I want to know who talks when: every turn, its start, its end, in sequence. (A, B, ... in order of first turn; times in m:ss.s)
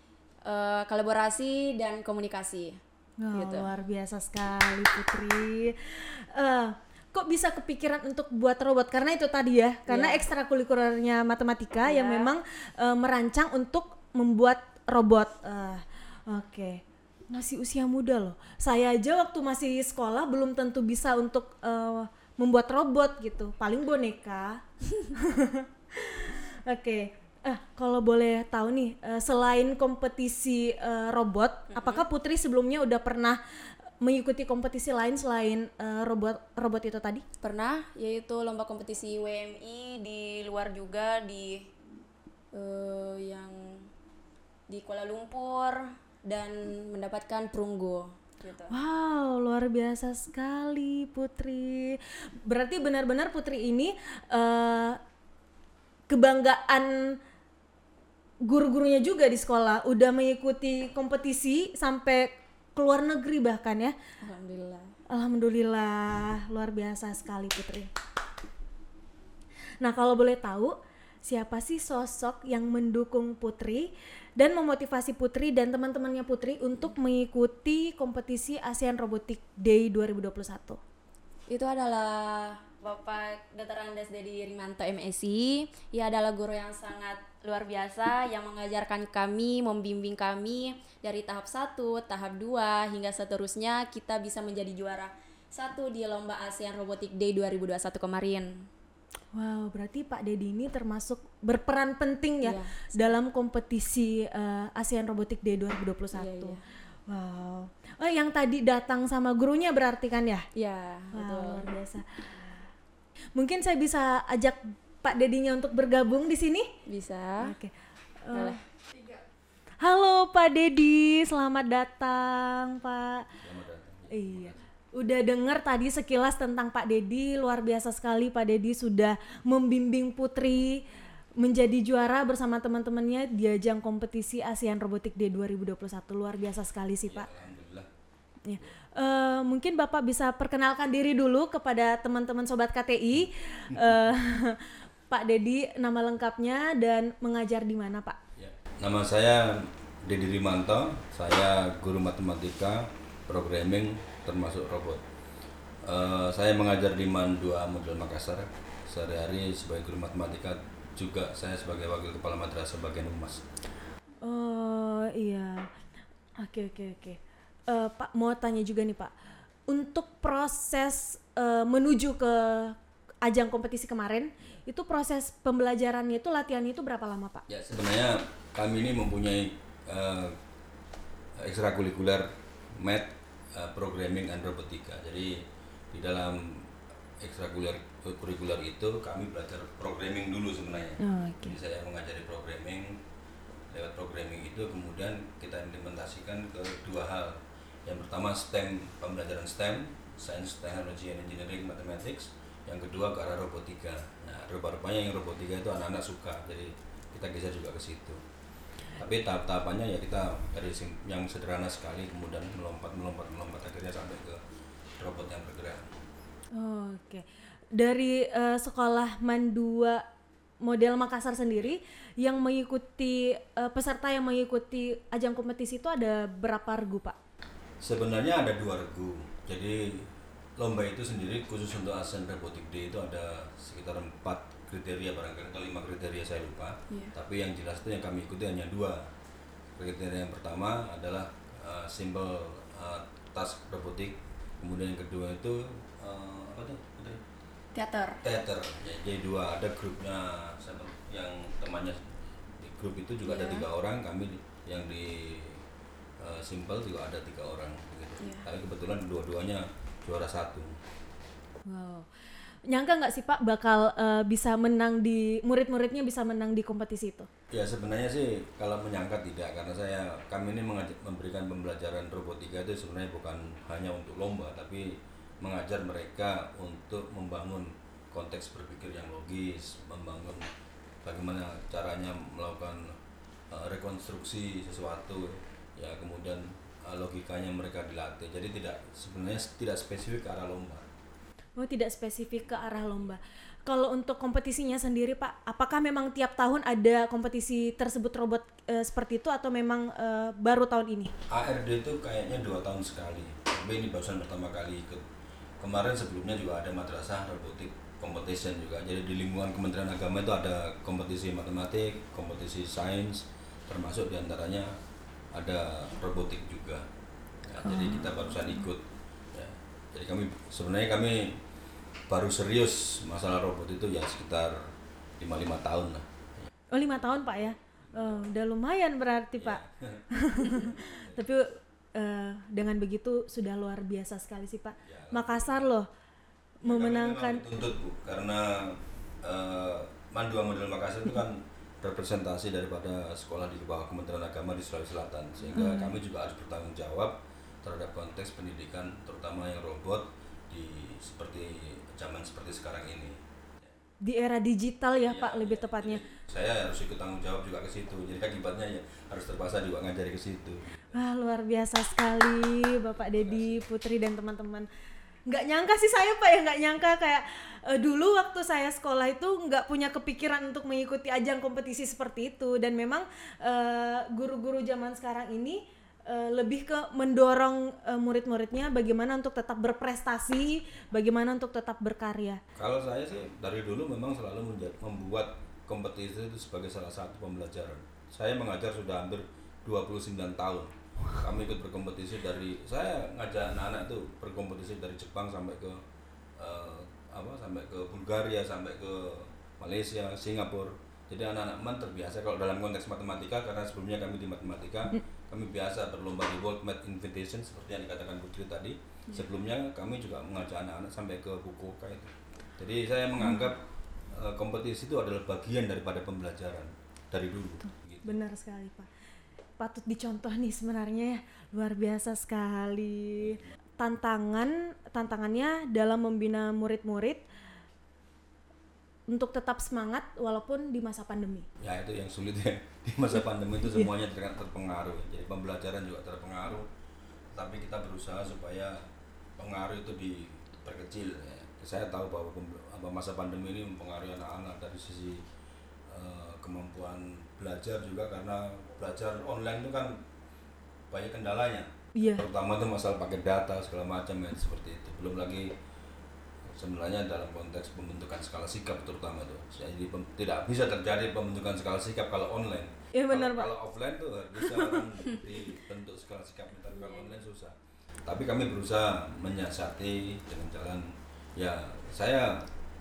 0:00.4-0:02.8 A
0:03.2-0:33.4 B
0:03.3-0:03.7 A
0:09.9-0:10.2 A
0:11.8-0:12.3 A
0:31.7-0:32.0 A
0:34.0-0:37.2 B
0:37.4-0:41.7 A
0:42.5-0:43.9 A
0:44.7-0:48.8 A
0:48.7-0:55.0 B
0:56.1-0:57.2 B
0:58.4-1:04.0 B
1:04.2-1:05.0 A
1:05.1-1:07.9 B
1:09.8-1:20.8 B
1:21.5-1:38.7 A
1:39.3-1:50.4 B
1:42.4-1:43.0 A
1:46.1-1:46.6 A
1:50.6-1:51.7 A
1:51.1-1:52.7 B
1:53.4-1:56.7 B
1:56.9-1:57.6 A
1:57.4-1:58.6 B
1:58.3-1:58.6 A
1:59.8-2:03.4 B
2:03.4-2:04.6 C
2:04.1-2:17.3 B
2:17.1-2:17.9 C
2:18.4-2:28.2 B
2:28.4-2:35.0 C
2:35.8-2:43.4 C
2:44.2-2:45.7 B
2:46.4-2:49.1 B
2:49.7-2:57.4 B
2:57.5-3:00.4 C
3:01.4-3:13.0 C
3:11.0-3:11.6 B
3:13.7-3:28.2 C
3:29.0-3:34.4 C
3:35.0-3:35.9 C
3:36.6-3:40.0 B
3:40.6-3:47.2 B
3:47.8-3:59.1 C
3:59.8-4:07.2 C
4:07.7-4:08.2 A
4:08.2-4:15.6 C
4:13.2-4:13.7 A
4:16.2-4:20.8 C
4:18.2-4:18.4 A
4:21.7-4:22.1 B
4:22.7-4:27.3 B
4:27.5-4:40.5 C
4:41.0-4:43.0 C
4:43.5-4:50.9 C
4:51.6-5:01.1 B
5:01.3-5:05.0 C
5:05.6-5:14.7 C
5:15.3-5:16.8 C
5:17.4-5:21.4 C
5:17.6-5:18.2 B
5:22.1-5:26.5 C
5:26.7-5:35.9 B
5:27.0-5:28.3 C
5:29.4-5:31.4 C
5:34.9-5:35.7 C
5:36.6-5:37.4 B
5:36.6-5:53.7 C
5:45.5-5:46.0 B
5:54.0-5:56.0 B
5:55.0-6:01.0 C
6:00.9-6:04.7 B
6:03.1-6:03.6 C
6:05.3-6:22.4 B
6:22.6-6:35.8 C
6:36.4-6:58.2 C
6:58.0-6:58.9 B
6:59.6-7:07.2 B
7:03.2-7:03.5 C
7:09.1-7:11.5 B
7:11.6-7:16.7 C
7:17.3-7:25.2 C
7:25.9-7:30.0 C
7:30.9-7:35.5 C
7:32.0-7:32.3 B
7:36.5-7:47.5 C
7:43.0-7:43.5 B
7:46.7-7:47.1 A
7:48.1-7:52.5 C